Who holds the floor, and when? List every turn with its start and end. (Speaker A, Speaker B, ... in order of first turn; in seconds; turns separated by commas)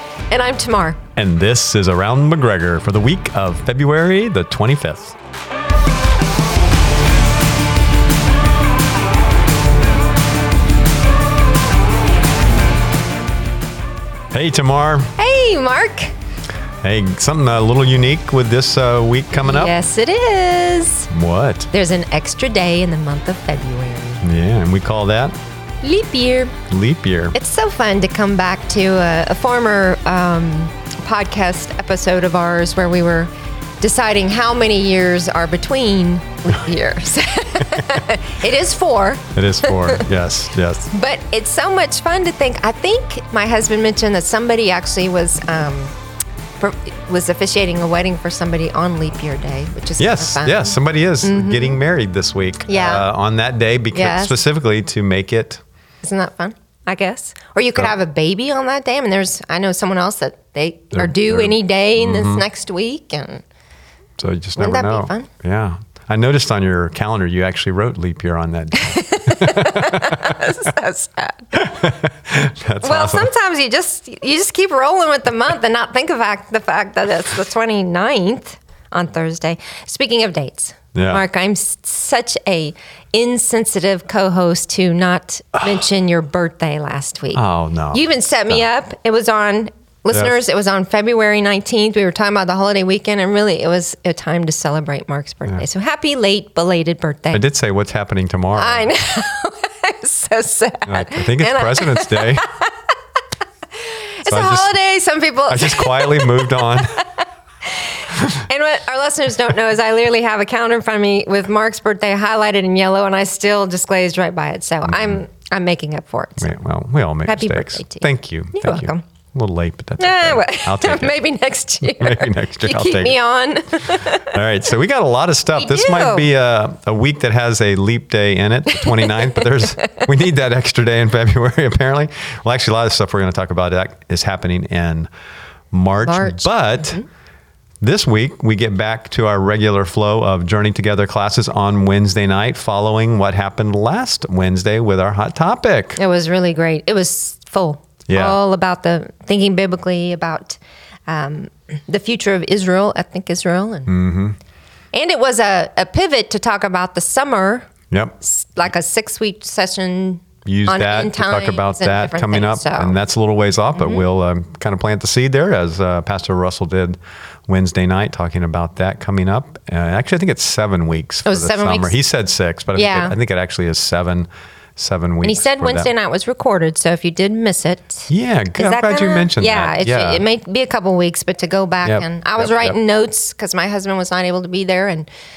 Speaker A: 0.3-1.0, Speaker B: 1.1-5.2, Speaker B: 14.3-15.2, Speaker A: 15.2-16.1, Speaker B: 16.8-19.7, Speaker A: 19.4-21.1, Speaker B: 21.1-21.7, Speaker A: 21.7-24.2, Speaker B: 24.2-25.4, Speaker A: 25.8-26.6, Speaker B: 26.7-27.4, Speaker A: 27.3-40.1, Speaker B: 39.3-40.9, Speaker A: 40.9-45.9, Speaker A: 46.6-51.8, Speaker B: 50.0-55.6, Speaker A: 52.7-53.1, Speaker A: 53.9-54.4, Speaker A: 56.0-63.4, Speaker B: 60.9-62.4, Speaker B: 64.2-70.5, Speaker A: 64.6-65.3, Speaker A: 68.7-71.7, Speaker B: 71.5-73.3, Speaker A: 72.8-87.4, Speaker B: 80.9-81.2, Speaker B: 87.3-88.6, Speaker A: 87.9-97.4, Speaker B: 90.1-90.4, Speaker B: 97.3-98.9, Speaker A: 98.5-102.9, Speaker B: 100.9-102.5, Speaker A: 103.7-116.5, Speaker B: 104.3-104.7, Speaker B: 105.5-107.0, Speaker B: 108.1-108.4, Speaker B: 114.8-115.2, Speaker B: 116.4-121.2, Speaker A: 117.2-119.0, Speaker A: 120.0-124.4, Speaker B: 121.8-123.2, Speaker B: 123.8-135.1, Speaker A: 125.5-126.3, Speaker A: 128.8-130.0, Speaker B: 135.7-137.0, Speaker A: 136.0-136.7, Speaker B: 137.8-146.0, Speaker A: 146.0-153.9, Speaker B: 148.1-148.4, Speaker B: 153.9-154.4, Speaker A: 154.9-163.0, Speaker B: 157.9-158.2, Speaker B: 160.4-167.0, Speaker B: 167.5-175.9, Speaker A: 171.2-172.0, Speaker A: 172.7-173.1, Speaker A: 175.2-185.1, Speaker B: 178.1-180.2, Speaker B: 181.8-182.8